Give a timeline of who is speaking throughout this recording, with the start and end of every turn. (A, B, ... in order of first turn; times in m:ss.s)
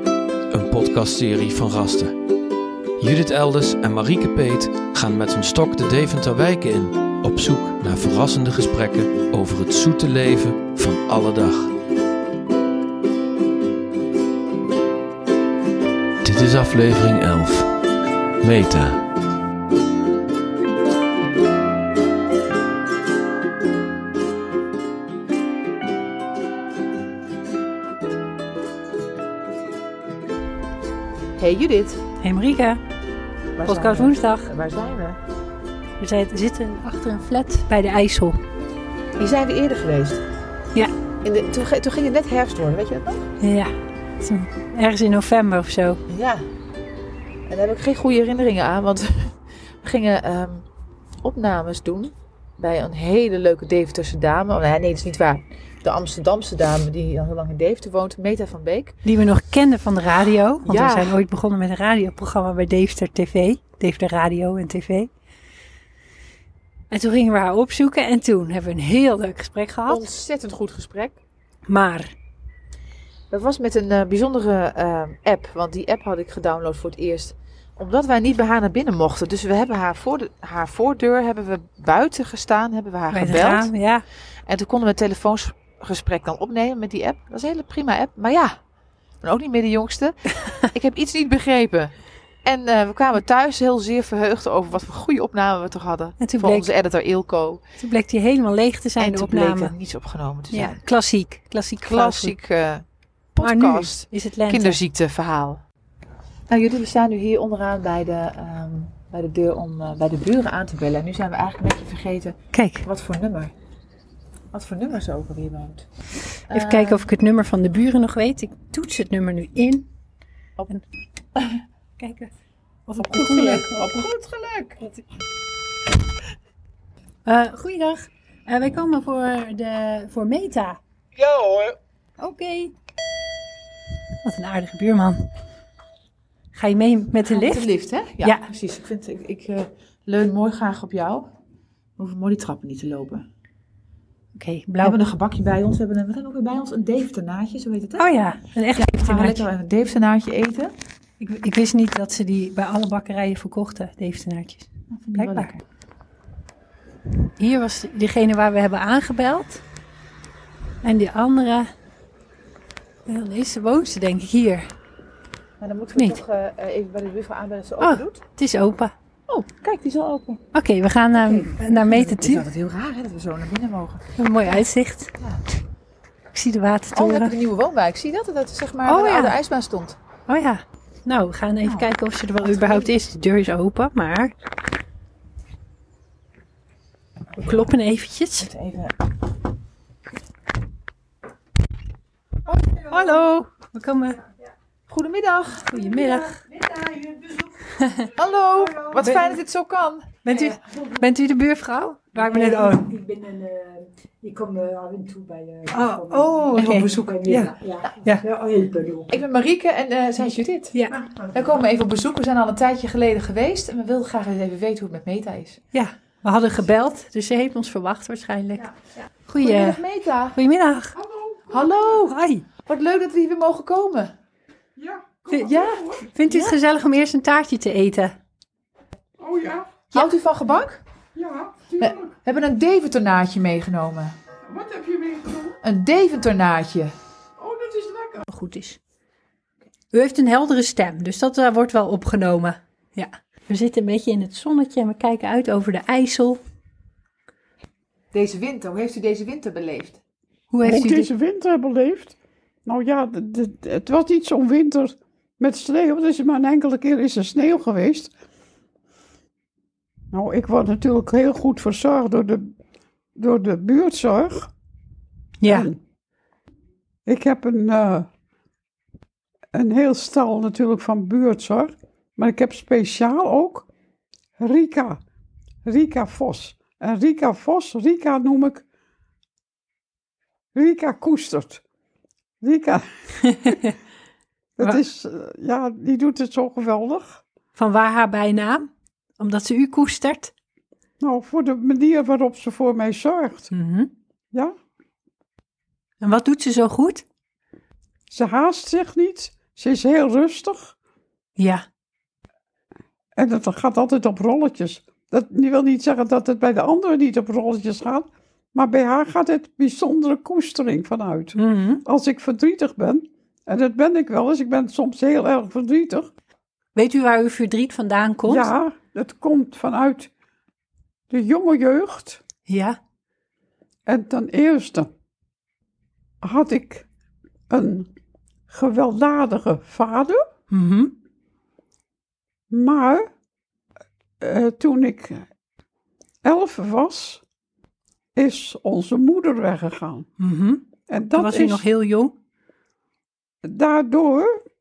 0:00.5-0:02.2 A
0:03.0-0:11.7 A
0:16.2-0:17.7 A
0:18.4-0:19.0 A
0:31.4-0:32.0 B
0:32.2-0:32.8 C
0:33.6-0:35.2 B
0:33.6-0:34.5 C
0:36.0-0:38.4 C
0:39.2-0:40.2 B
0:41.2-0:43.3 B
0:43.4-0:46.0 C
0:46.1-0:46.4 B
0:47.5-0:50.6 B
0:51.2-0:59.0 B
0:59.0-1:05.1 C
1:00.6-1:01.2 B
1:06.9-1:10.0 C
1:09.9-1:11.2 B
1:11.7-1:12.1 C
1:13.3-1:23.7 B
1:23.1-1:24.0 C
1:24.5-1:28.5 B
1:29.2-1:31.9 B
1:32.4-1:37.6 B
1:36.2-1:36.7 C
1:37.8-1:39.7 C
1:39.0-1:40.8 B
1:40.5-1:42.4 C
1:41.8-1:42.8 B
1:43.4-1:45.6 B
1:43.4-1:44.8 C
1:46.5-1:53.5 B
1:52.5-1:52.8 C
1:54.5-1:55.9 B
1:56.5-1:57.0 B
1:56.5-1:59.9 C
2:02.0-2:02.3 C
2:02.8-2:04.0 C
2:03.0-2:04.8 B
2:07.2-2:10.8 C
2:11.2-2:11.8 B
2:12.2-2:12.7 C
2:14.2-2:15.2 C
2:16.5-2:17.6 C
2:17.3-2:21.3 B
2:22.0-2:23.2 B
2:24.4-2:25.0 C
2:24.8-2:28.1 B
2:28.0-2:29.4 C
2:28.7-2:30.7 B
2:31.2-2:35.5 C
2:34.9-2:35.6 B
2:37.4-2:39.6 C
2:40.8-2:41.7 C
2:43.0-2:44.7 C
2:45.6-2:48.2 B
2:45.9-2:46.2 C
2:47.8-2:48.9 C
2:49.3-2:50.4 B
2:50.5-2:52.5 C
2:51.1-2:54.6 B
2:54.2-2:55.1 C
2:56.3-2:57.3 C
2:56.9-3:00.0 B
2:58.8-2:59.4 C
3:00.3-3:04.3 C
3:01.6-3:01.9 B
3:02.4-3:02.9 B
3:07.4-3:08.5 C
3:08.4-3:09.0 B
3:12.6-3:14.2 C
3:14.9-3:15.7 B
3:15.7-3:16.5 C
3:16.4-3:17.4 D
3:17.4-3:18.1 C
3:18.1-3:20.5 B
3:19.0-3:19.4 C
3:20.2-3:23.6 C
3:22.2-3:22.8 B
3:22.9-3:25.7 D
3:25.7-3:28.3 C
3:26.1-3:28.0 B
3:26.2-3:29.1 D
3:29.1-3:30.7 B
3:30.2-3:31.1 C
3:31.3-3:35.6 B
3:35.7-3:38.7 C
3:39.2-3:39.8 C
3:39.4-3:40.4 B
3:40.3-3:40.9 C
3:40.9-3:41.8 E
3:41.5-3:42.1 B
3:42.0-3:42.4 C
3:42.6-3:44.1 B
3:44.8-3:46.1 E
3:45.3-3:45.6 C
3:45.4-3:46.6 B
3:46.1-3:48.1 C
3:49.2-3:49.8 E
3:49.9-3:50.8 B
3:51.1-3:52.1 E
3:51.8-3:54.2 B
3:54.4-3:55.6 E
3:55.6-3:56.9 B
3:57.4-3:58.2 E
3:58.2-3:58.8 C
3:59.9-4:06.4 C
4:08.1-4:10.0 B
4:10.5-4:11.1 C
4:10.6-4:18.1 E
4:20.1-4:22.5 E
4:23.2-4:24.5 E
4:25.4-4:25.7 C
4:25.4-4:25.8 E
4:27.0-4:28.1 E
4:29.5-4:33.7 E
4:34.4-4:35.0 E
4:35.6-4:38.6 E
4:40.5-4:41.6 E
4:42.4-4:42.8 E
4:43.3-4:43.7 C
4:44.6-4:47.2 E
4:47.5-4:50.3 C
4:51.0-4:53.5 E
4:53.5-4:53.9 C
4:56.0-4:57.0 C
4:58.1-5:00.7 E
5:01.4-5:01.6 C
5:03.2-5:16.1 E
5:11.4-5:11.8 C
5:16.7-5:18.5 C
5:18.3-5:20.1 E
5:21.1-5:22.2 E
5:22.5-5:22.8 C
5:23.9-5:24.9 E
5:26.2-5:26.9 E
5:27.5-5:27.9 E
5:28.5-5:30.2 E
5:30.5-5:30.9 C
5:32.5-5:33.0 E
5:34.2-5:35.2 E
5:36.2-5:37.2 E
5:38.2-5:40.1 E
5:40.2-5:42.2 C
5:40.9-5:41.6 E
5:43.4-5:44.4 E